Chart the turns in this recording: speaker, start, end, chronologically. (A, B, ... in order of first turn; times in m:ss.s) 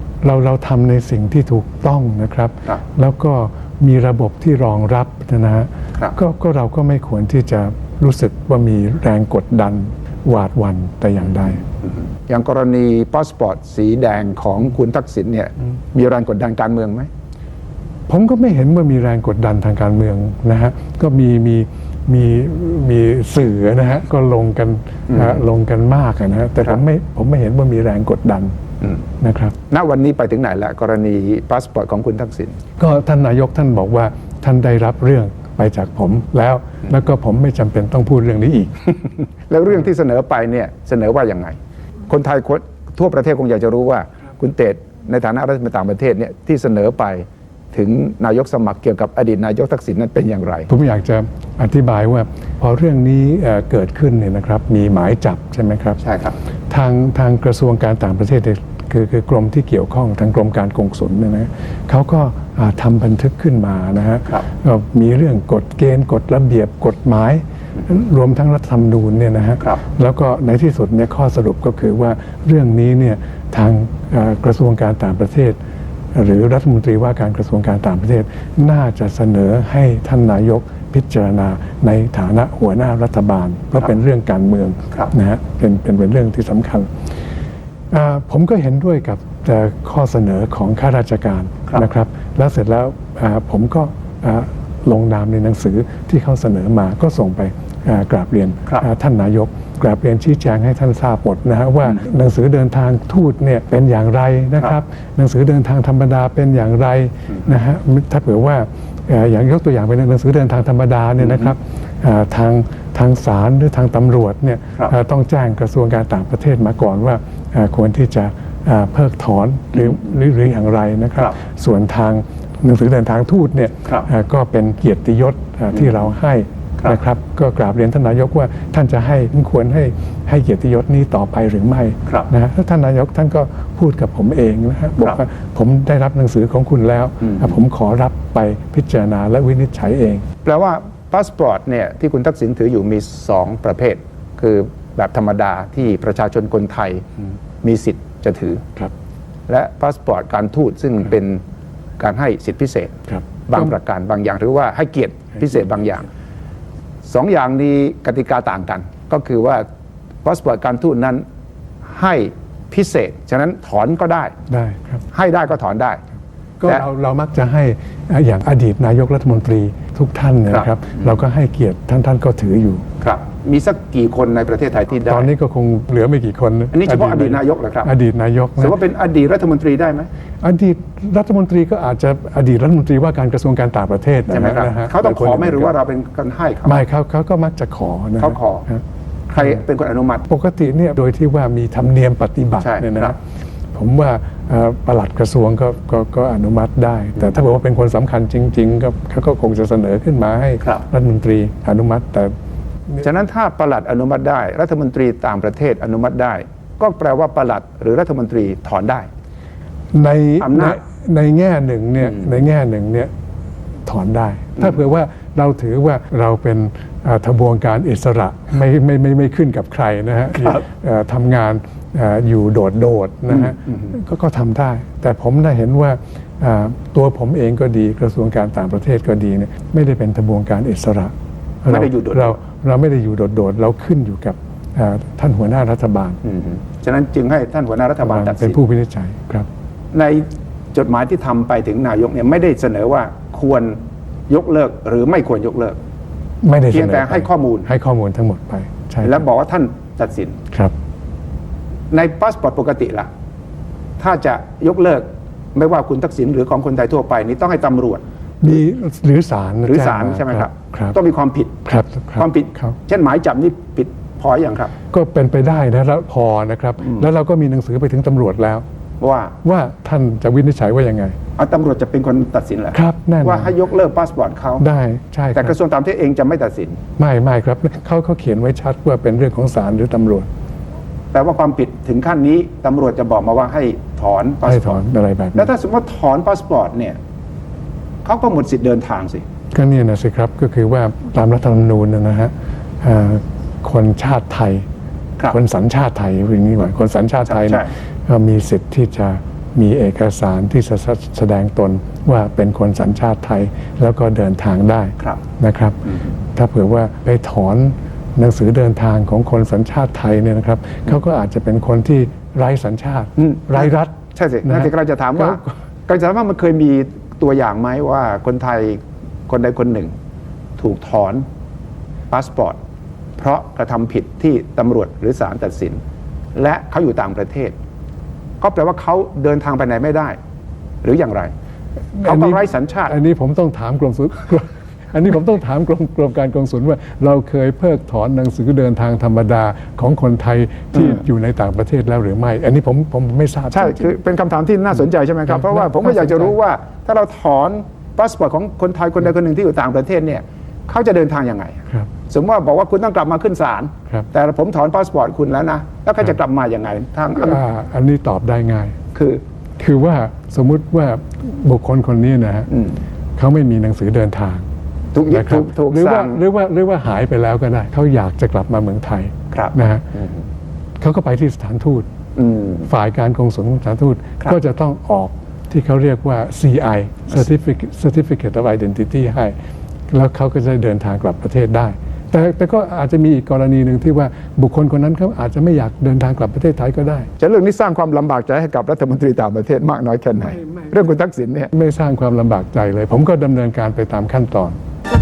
0:00.2-0:11.6 A
0:11.8-0:17.1 B
0:18.1-0:28.5 A
0:25.1-0:25.4 B
0:29.2-0:29.5 A
0:29.7-0:32.6 B
0:32.8-0:38.9 A
0:39.5-0:50.7 B
0:50.7-0:56.0 A
0:56.0-0:56.4 B
0:56.7-1:15.6 A
1:16.1-1:26.9 A
1:27.9-2:20.2 A
2:20.4-2:27.0 B
2:27.6-2:28.6 B
2:29.5-2:31.4 B
2:32.0-2:36.1 B
2:33.1-2:33.7 A
2:37.0-2:39.6 B
2:40.2-2:41.2 B
2:41.8-2:44.3 B
2:44.5-2:45.0 A
2:45.1-2:46.0 B
2:46.6-2:52.8 A
2:50.5-2:51.0 B
2:53.0-2:55.3 B
2:55.0-2:58.8 A
2:56.7-2:57.9 B
2:58.6-3:00.1 B
3:00.4-3:05.7 A
3:04.3-3:06.8 B
3:06.6-3:08.8 A
3:08.2-3:08.7 B
3:09.3-3:10.3 B
3:10.3-3:13.2 A
3:12.6-3:13.2 B
3:13.7-3:22.3 A
3:23.0-3:29.1 B
3:29.9-3:33.1 A
3:30.4-3:30.8 B
3:33.8-3:56.2 A
3:43.3-3:43.9 B
3:51.7-3:52.4 B
3:56.2-3:58.6 B
3:58.0-3:59.5 A
3:59.9-4:05.8 B
4:06.4-4:09.2 A
4:06.7-4:07.7 B
4:09.0-4:10.4 B
4:11.9-4:13.1 B
4:14.0-4:18.0 B
4:18.4-4:20.9 A
4:19.6-4:24.7 B
4:21.6-4:22.8 A
4:24.9-4:28.6 A
4:29.0-4:29.4 B
4:29.4-4:31.2 A
4:31.4-4:34.6 B
4:32.7-4:33.5 A
4:34.6-4:35.6 A
4:35.3-4:36.8 B
4:37.0-4:40.3 A
4:41.1-4:47.0 B
4:44.4-4:45.5 A
4:48.0-4:49.2 B
4:49.5-4:54.6 A
4:55.2-5:15.5 A
4:57.2-4:57.7 B
5:13.2-5:19.9 B
5:20.6-5:21.3 B
5:22.1-5:22.6 B
5:23.2-5:25.8 B
5:26.3-5:27.6 B
5:28.4-5:30.2 B
5:30.8-5:31.3 B
5:31.9-5:43.9 A
5:32.0-5:33.0 B
5:40.7-5:41.0 B
5:43.5-5:57.4 B
5:45.3-5:46.3 A
5:57.1-5:58.7 A
5:58.9-5:59.2 B
5:59.6-6:02.5 A
6:02.5-6:02.8 B
6:03.2-6:04.4 A
6:04.9-6:06.2 B
6:05.1-6:09.9 A
6:09.3-6:10.2 B
6:10.8-6:11.9 A
6:12.2-6:12.7 B
6:12.6-6:19.3 A
6:19.9-6:27.1 A
6:27.2-6:31.5 B
6:30.2-6:30.9 A
6:31.5-6:34.6 A